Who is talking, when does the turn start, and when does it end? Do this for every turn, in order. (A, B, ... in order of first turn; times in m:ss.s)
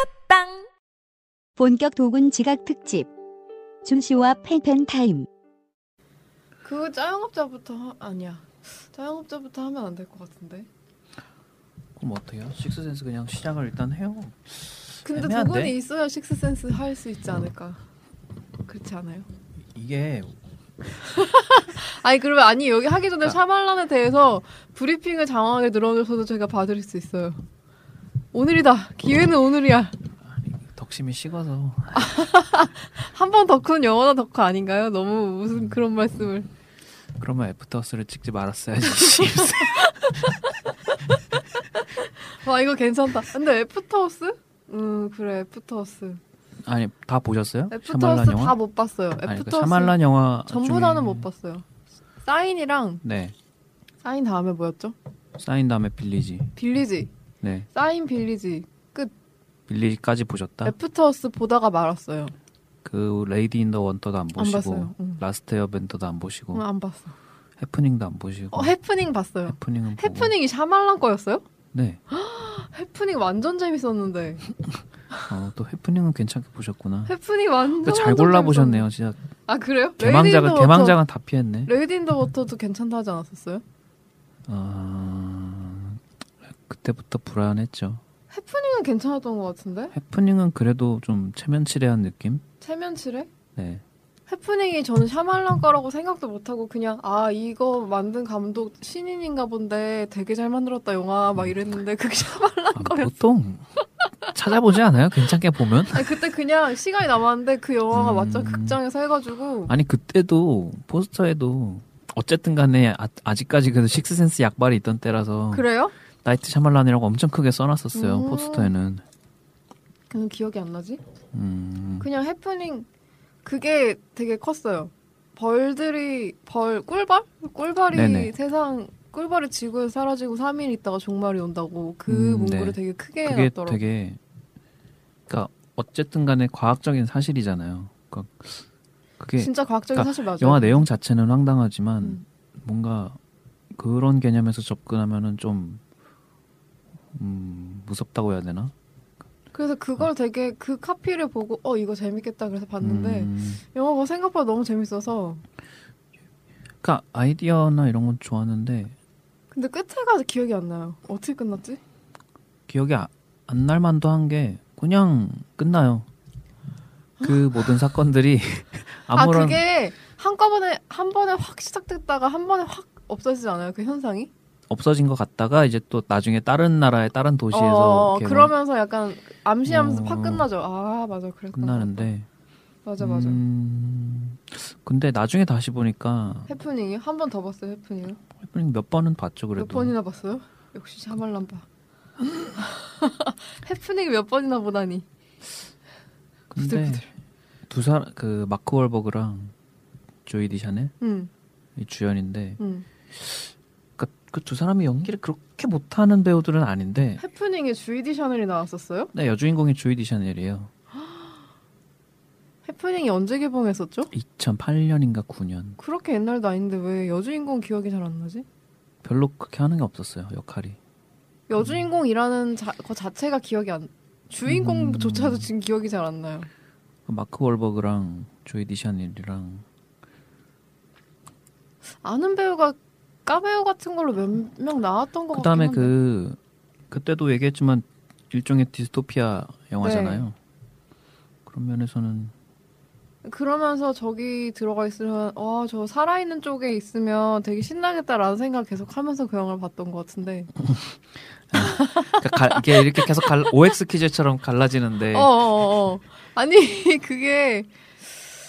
0:01.6-0:03.1 A
0:03.8-0:05.3 A
0:06.6-0:10.7 B
0:12.0-0:15.7 C
0:15.0-0:17.8 B
0:18.6-0:19.3 B
0:19.7-0:20.4 C
0:21.0-0:27.4 B
0:28.3-0:30.0 B
0:30.3-0:32.2 C
0:31.9-0:36.5 B
0:37.2-0:40.4 C
0:41.8-0:46.2 B
0:46.6-0:48.6 C
0:47.7-0:51.6 B
0:49.2-0:51.3 C
0:52.2-0:53.0 B
0:53.0-0:53.3 C
0:54.0-0:55.0 B
0:55.4-0:56.6 C
0:56.6-0:57.1 B
0:57.4-0:57.7 C
0:57.7-0:59.1 B
0:59.7-1:00.8 C
1:00.6-1:02.3 B
1:02.8-1:06.6 C
1:04.4-1:05.2 B
1:06.5-1:07.1 B
1:07.6-1:08.7 C
1:08.5-1:11.4 B
1:09.4-1:10.3 C
1:11.7-1:12.0 C
1:12.1-1:14.5 B
1:15.3-1:17.1 C
1:17.0-1:18.9 B
1:17.7-1:19.2 C
1:19.4-1:21.0 B
1:20.0-1:21.7 C
1:21.6-1:23.6 B
1:24.5-1:28.0 C
1:28.3-1:29.9 B
1:29.9-1:32.4 C
1:32.6-1:33.3 B
1:33.6-1:33.8 C
1:34.3-1:43.1 B
1:42.7-1:43.6 C
1:44.3-1:46.3 C
1:45.9-1:49.7 B
1:47.9-1:48.8 C
1:49.7-1:55.7 C
1:55.5-1:55.9 B
1:56.2-1:59.0 C
1:57.9-1:58.7 B
2:00.1-2:01.0 B
2:01.3-2:02.1 C
2:02.0-2:02.9 B
2:03.4-2:13.8 B
2:07.9-2:08.3 C
2:12.1-2:14.2 C
2:15.3-2:18.6 C
2:19.2-2:23.2 C
2:19.4-2:20.9 B
2:23.7-2:25.8 C
2:27.1-2:28.7 C
2:29.5-2:35.4 B
2:32.8-2:33.6 C
2:36.8-2:39.0 C
2:39.5-2:41.8 B
2:42.7-2:46.1 C
2:47.2-2:49.6 C
2:49.1-2:54.3 B
2:54.7-2:58.5 C
2:57.5-3:02.1 B
2:59.6-3:00.5 C
3:01.5-3:02.3 C
3:02.8-3:03.4 B
3:03.0-3:06.5 C
3:06.5-3:08.2 B
3:08.4-3:09.9 C
3:09.6-3:11.6 B
3:12.6-3:15.1 B
3:16.5-3:17.1 C
3:16.6-3:17.0 B
3:17.7-3:19.5 C
3:20.2-3:20.9 C
3:21.0-3:21.3 B
3:21.8-3:22.6 C
3:22.6-3:22.9 B
3:23.1-3:27.2 C
3:27.2-3:29.1 B
3:29.1-3:30.7 C
3:30.9-3:31.4 B
3:32.6-3:34.1 B
3:34.1-3:35.8 C
3:35.8-3:38.4 B
3:39.0-3:40.8 C
3:41.5-3:46.5 B
3:44.5-3:45.5 C
3:47.1-3:49.6 C
3:52.0-3:56.0 B
3:55.3-3:56.4 C
3:56.9-4:00.4 C
3:59.8-4:00.3 B
4:01.5-4:02.3 C
4:03.2-4:10.5 B
4:11.5-4:15.4 C
4:11.6-4:13.5 B
4:15.1-4:17.7 B